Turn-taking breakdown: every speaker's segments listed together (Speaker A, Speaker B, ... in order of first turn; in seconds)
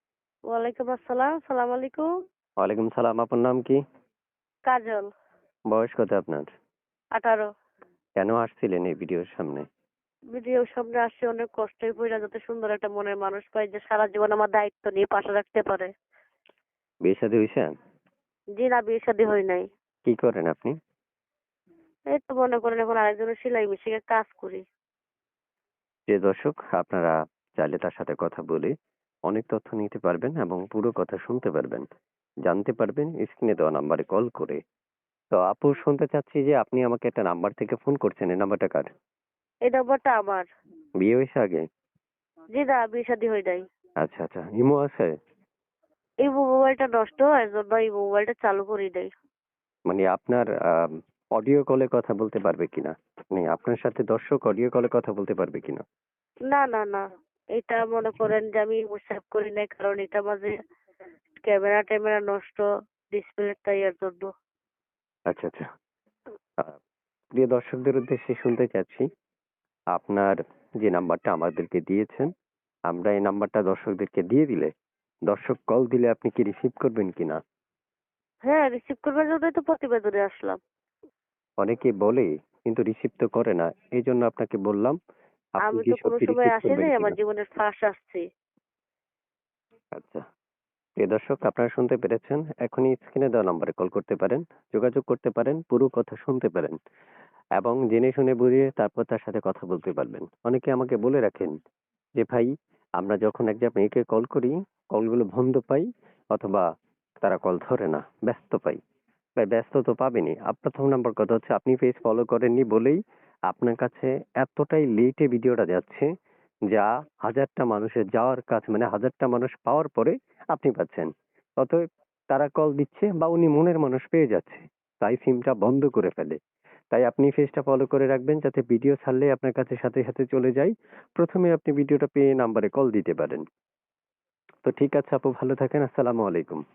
Speaker A: 0.5-2.1, 4.7-5.1, 7.2-7.5, 10.3-15.9, 18.6-19.7, 22.1-24.6, 39.7-40.5, 42.6-43.6, 46.2-49.1, 56.5-57.0, 57.6-60.5, 61.4-64.3, 78.5-80.6, 85.6-88.2
Speaker B: 2.6-3.8, 5.7-6.5, 8.2-9.7, 17.1-17.7, 20.1-20.8, 26.1-28.7, 29.3-31.9, 32.5-34.6, 35.3-38.9, 41.0-41.6, 44.0-45.1, 49.9-55.8, 65.3-65.7, 67.3-69.1, 70.0-72.3, 72.9-74.7, 75.3-77.4, 81.6-85.0, 85.6-87.2, 90.0-90.2, 91.0-96.8, 97.6-101.5, 102.2-106.7, 107.2-108.8, 109.4-116.1, 116.7-126.4, 126.9-133.4, 134.7-136.6